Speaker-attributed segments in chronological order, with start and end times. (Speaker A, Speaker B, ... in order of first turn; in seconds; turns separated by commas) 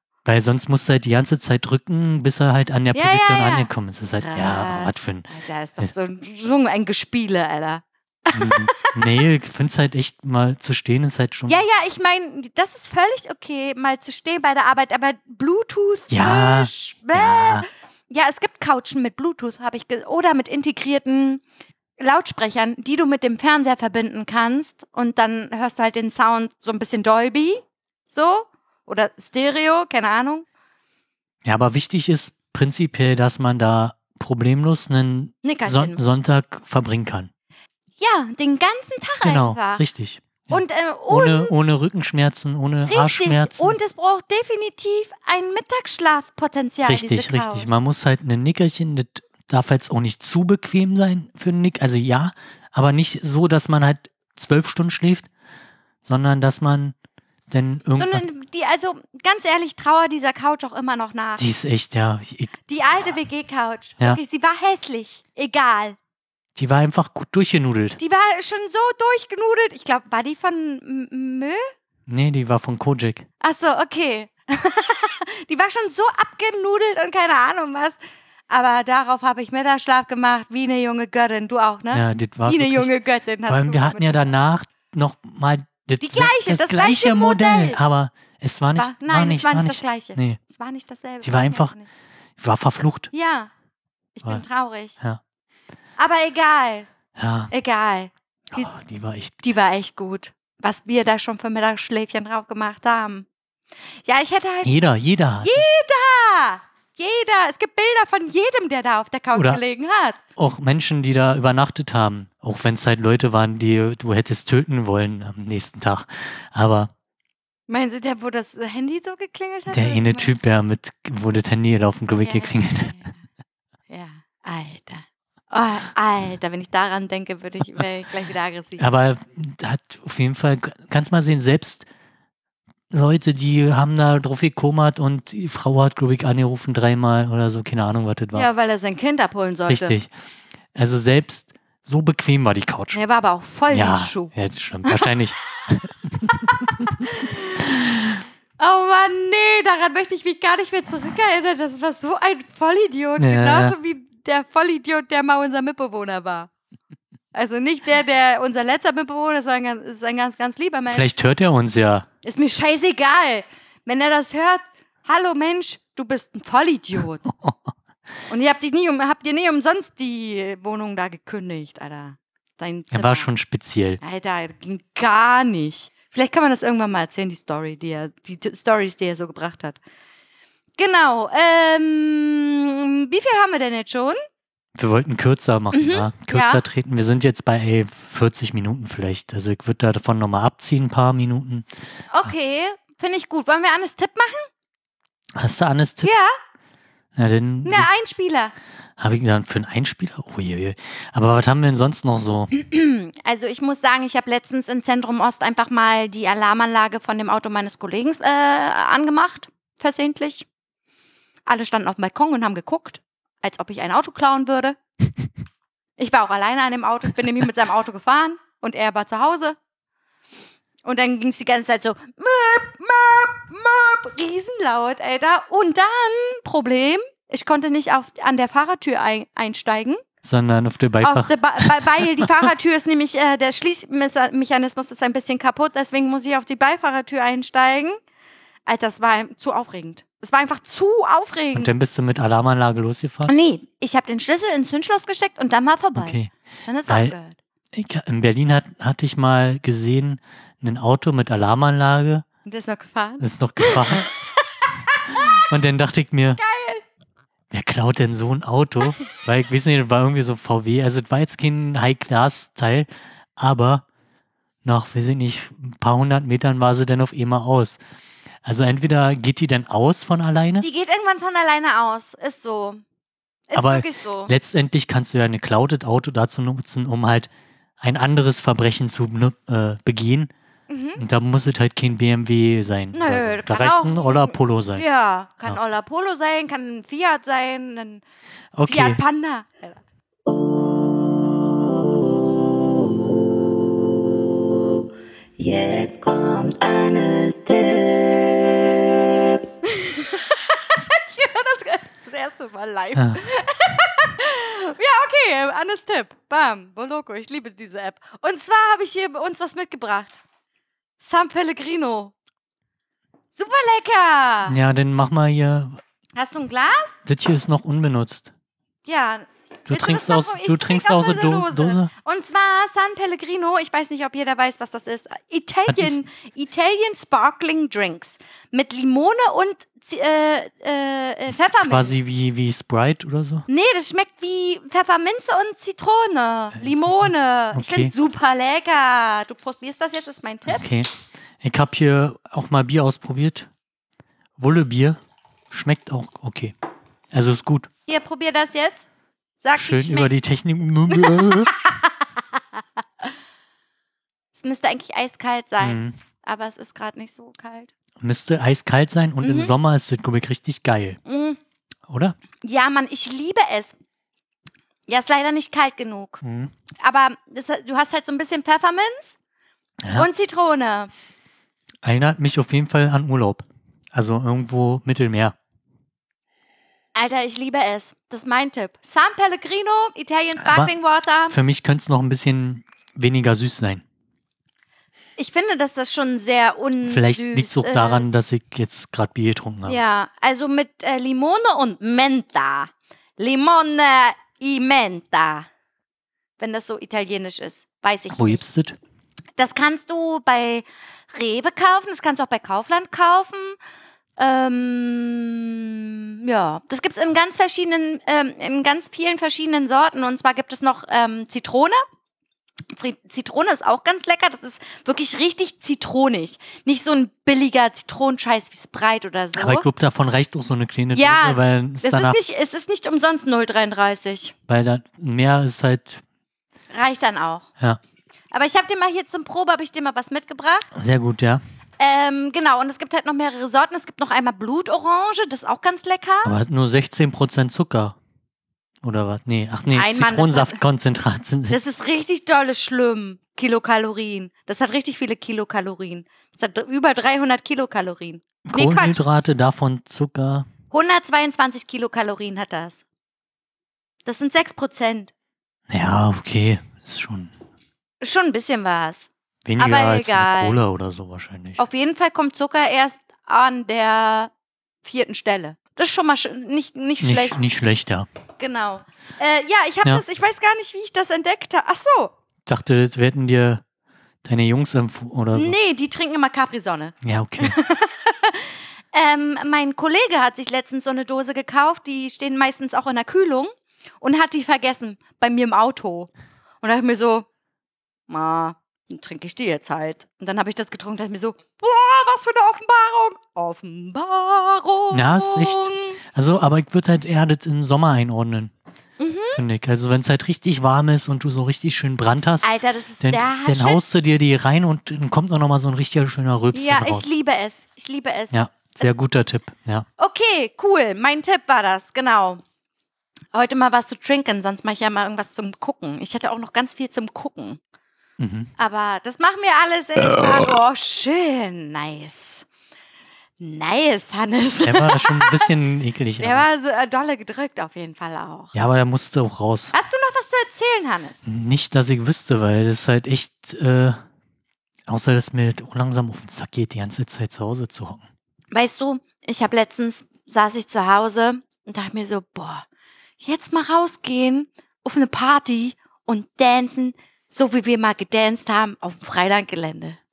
Speaker A: 0.2-5.3, Speaker B: 2.9-9.2, Speaker A: 8.3-11.6, Speaker B: 11.5-21.4, Speaker A: 16.1-17.6, Speaker B: 22.0-30.4, Speaker A: 31.4-37.3, Speaker B: 35.4-36.0, Speaker B: 38.0-39.8, Speaker A: 39.2-43.8, Speaker B: 40.5-41.5, Speaker B: 42.9-47.7, Speaker A: 46.9-55.3, Speaker A: 56.0-57.0, Speaker A: 57.5-58.2, Speaker B: 58.0-61.5, Speaker A: 61.4-62.6, Speaker B: 62.7-66.0, Speaker A: 66.5-68.0, Speaker B: 68.0-71.7, Speaker A: 72.1-73.3, Speaker B: 73.4-78.0, Speaker B: 78.5-84.3, Speaker A: 81.9-82.9, Speaker A: 83.5-90.4, Speaker B: 86.0-87.8, Speaker B: 88.8-91.9, Speaker A: 91.2-91.7, Speaker A: 92.4-93.1, Speaker B: 93.1-93.5, Speaker B: 94.2-95.0, Speaker B: 96.0-96.9, Speaker A: 97.2-97.5, Speaker B: 97.5-98.7, Speaker A: 98.5-99.3, Speaker B: 99.4-103.3, Speaker B: 104.1-104.8, Speaker A: 104.6-105.6, Speaker B: 105.4-110.2, Speaker A: 109.3-109.6, Speaker A: 110.4-116.9, Speaker B: 117.7-120.3, Speaker A: 119.7-123.0, Speaker B: 122.2-123.2, Speaker B: 123.9-128.8, Speaker A: 128.8-131.9, Speaker A: 132.9-138.5, Speaker B: 138.3-140.0, Speaker A: 139.7-140.1, Speaker A: 140.8-143.0, Speaker B: 142.9-144.3, Speaker A: 143.7-147.0, Speaker B: 144.8-145.2, Speaker B: 146.6-147.7, Speaker A: 147.6-148.2, Speaker B: 148.6-156.5, Speaker A: 153.2-153.8, Speaker B: 157.3-161.1, Speaker A: 160.9-162.1, Speaker B: 162.2-167.3, Speaker B: 168.3-173.3, Speaker A: 172.9-174.0, Speaker B: 174.0-179.8, Speaker B: 180.8-184.2, Speaker A: 184.8-191.7, Speaker B: 185.7-186.6, Speaker B: 192.1-194.5, Speaker A: 195.4-196.1, Speaker B: 196.0-196.3, Speaker A: 197.2-197.9, Speaker B: 197.6-198.5, Speaker A: 199.0-202.5, Speaker B: 202.5-210.5, Speaker B: 211.5-214.8, Speaker B: 216.0-219.6, Speaker B: 220.8-230.0, Speaker A: 230.2-232.5, Speaker B: 231.0-238.0, Speaker B: 238.7-241.7, Speaker A: 241.5-243.3, Speaker B: 243.3-247.4, Speaker A: 246.0-246.3, Speaker A: 246.9-247.1, Speaker A: 247.7-252.3, Speaker B: 252.5-255.4, Speaker A: 253.2-254.1, Speaker A: 255.1-256.4, Speaker B: 256.4-256.9, Speaker A: 257.5-263.9, Speaker A: 264.6-267.8, Speaker A: 268.4-270.7, Speaker B: 270.6-272.8, Speaker B: 273.5-274.3, Speaker A: 273.6-280.3, Speaker B: 280.7-281.0, Speaker A: 281.0-284.8, Speaker B: 282.9-288.0, Speaker A: 288.5-289.0, Speaker B: 288.7-289.8, Speaker B: 295.4-310.2, Speaker A: 302.9-303.2, Speaker B: 311.0-312.1, Speaker B: 313.4-314.6, Speaker A: 314.5-315.8, Speaker B: 316.2-317.0, Speaker A: 317.1-318.3, Speaker B: 318.9-332.1, Speaker A: 319.7-321.9, Speaker A: 325.7-326.0, Speaker A: 331.3-333.5, Speaker B: 333.5-340.7, Speaker A: 336.6-337.9, Speaker A: 340.5-343.5, Speaker A: 344.4-345.0, Speaker A: 345.5-346.5, Speaker A: 347.1-347.7, Speaker B: 347.9-348.9, Speaker B: 349.4-350.1, Speaker A: 349.6-351.5, Speaker B: 350.9-352.4, Speaker B: 354.4-357.7, Speaker A: 355.6-355.9, Speaker A: 358.0-361.0, Speaker B: 359.2-359.5, Speaker B: 361.1-361.4, Speaker A: 361.9-362.2, Speaker B: 362.4-363.8, Speaker B: 364.9-366.2, Speaker A: 366.2-366.5, Speaker B: 366.8-369.2, Speaker A: 369.8-370.1, Speaker B: 369.9-370.9, Speaker A: 371.8-375.4, Speaker B: 376.9-381.4, Speaker A: 380.4-380.7, Speaker A: 381.3-383.8, Speaker B: 385.2-388.1, Speaker A: 386.9-389.8, Speaker B: 389.7-395.5, Speaker B: 396.4-398.4, Speaker A: 398.1-398.8, Speaker B: 399.4-403.6, Speaker B: 404.2-411.8, Speaker B: 412.7-419.7, Speaker A: 419.4-422.2, Speaker B: 420.9-424.3, Speaker A: 424.5-426.0, Speaker B: 426.7-427.5, Speaker B: 428.3-430.7, Speaker A: 430.7-431.4, Speaker B: 431.8-436.4, Speaker A: 436.2-438.0, Speaker A: 438.8-441.6, Speaker B: 439.7-440.6, Speaker B: 441.5-449.0, Speaker A: 448.4-450.5, Speaker B: 450.7-452.8, Speaker B: 454.1-455.1, Speaker A: 455.7-457.3, Speaker B: 458.0-460.6, Speaker A: 459.5-461.6, Speaker B: 461.6-464.3, Speaker B: 464.8-467.4, Speaker A: 467.0-468.1, Speaker B: 468.4-472.1, Speaker A: 472.5-473.6, Speaker A: 474.2-475.6, Speaker B: 475.3-486.1, Speaker A: 477.0-477.6, Speaker B: 486.6-487.3, Speaker B: 488.1-496.0, Speaker A: 494.9-498.5, Speaker B: 499.0-499.4, Speaker A: 499.3-502.5, Speaker B: 502.4-503.8, Speaker A: 503.0-507.1, Speaker B: 506.5-508.9, Speaker A: 508.3-509.9, Speaker B: 510.0-512.4, Speaker B: 513.3-517.6, Speaker A: 518.2-518.5, Speaker B: 518.6-522.5, Speaker B: 523.4-525.5, Speaker A: 524.6-526.5, Speaker B: 526.2-528.5, Speaker A: 528.5-529.7, Speaker B: 529.7-531.2, Speaker A: 531.2-534.0, Speaker A: 534.9-538.0, Speaker B: 538.5-542.7, Speaker B: 543.2-550.0